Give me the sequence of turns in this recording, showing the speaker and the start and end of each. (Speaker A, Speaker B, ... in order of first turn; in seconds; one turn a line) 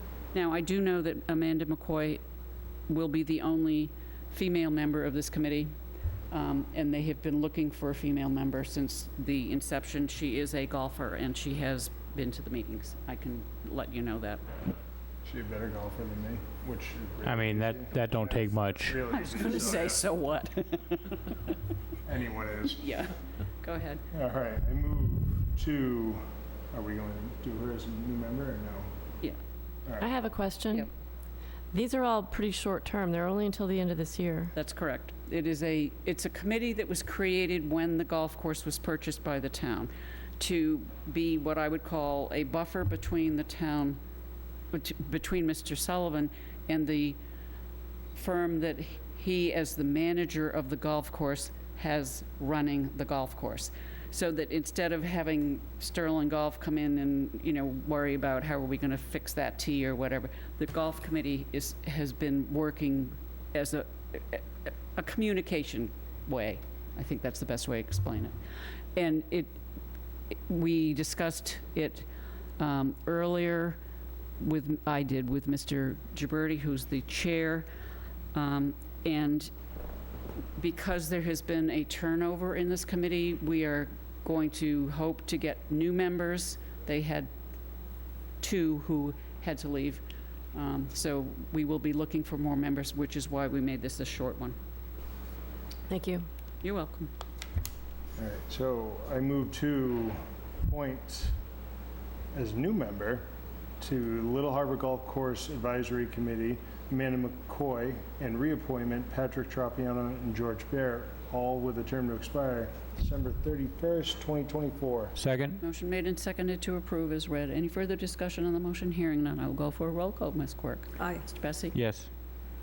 Speaker A: 0.3-2.2
Speaker A: 2.9-5.7
Speaker A: 6.3-14.5
Speaker B: 15.2-20.1
Speaker C: 17.2-19.0
Speaker A: 19.1-21.4
Speaker B: 22.1-22.9
Speaker A: 22.8-24.0
Speaker B: 24.1-28.9
Speaker B: 29.8-30.1
Speaker D: 30.0-30.9
Speaker D: 31.7-34.5
Speaker A: 34.5-44.0
Speaker A: 44.7-47.2
Speaker A: 48.1-68.4
Speaker A: 68.9-69.6
Speaker A: 70.3-73.8
Speaker A: 74.4-77.7
Speaker A: 78.3-79.5
Speaker A: 80.6-87.3
Speaker A: 88.4-90.0
Speaker A: 90.5-94.5
Speaker D: 95.9-96.2
Speaker A: 96.6-97.1
Speaker B: 98.2-101.3
Speaker B: 102.3-103.2
Speaker B: 103.8-115.2
Speaker C: 115.2-115.6
Speaker A: 115.6-121.8
Speaker D: 121.0-121.2
Speaker C: 121.7-122.1